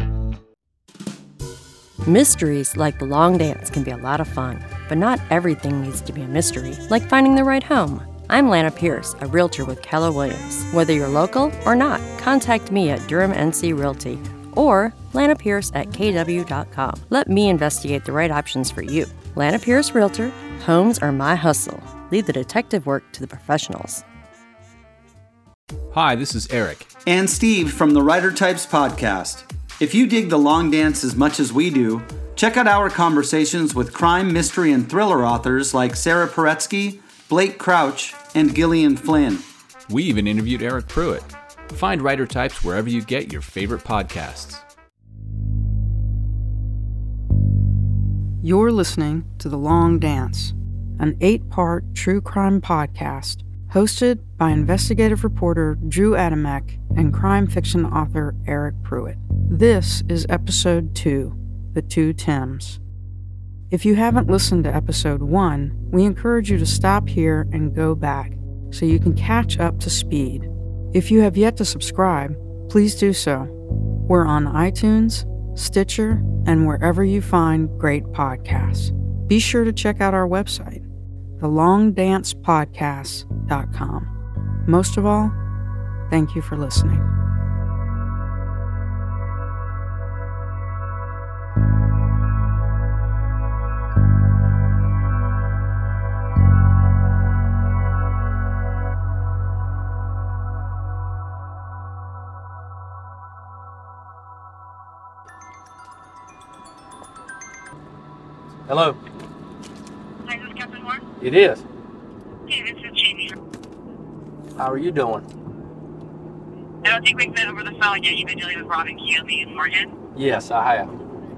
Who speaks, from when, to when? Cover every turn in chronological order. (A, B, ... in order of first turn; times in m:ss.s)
0:02.0-0:24.0 A
0:25.9-0:26.9 B
0:27.0-0:39.4 C
0:39.9-0:44.6 B
0:48.4-1:02.8 D
1:03.7-1:13.5 D
1:14.1-1:20.8 D
1:21.4-1:24.1 D
1:24.7-1:25.4 D
1:26.1-1:27.0 D
1:48.7-1:49.0 E
1:50.2-1:51.0 F
1:51.2-1:51.6 E
1:52.4-1:53.4 F
1:54.6-1:55.3 E
1:56.8-2:00.0 F
2:00.1-2:00.9 E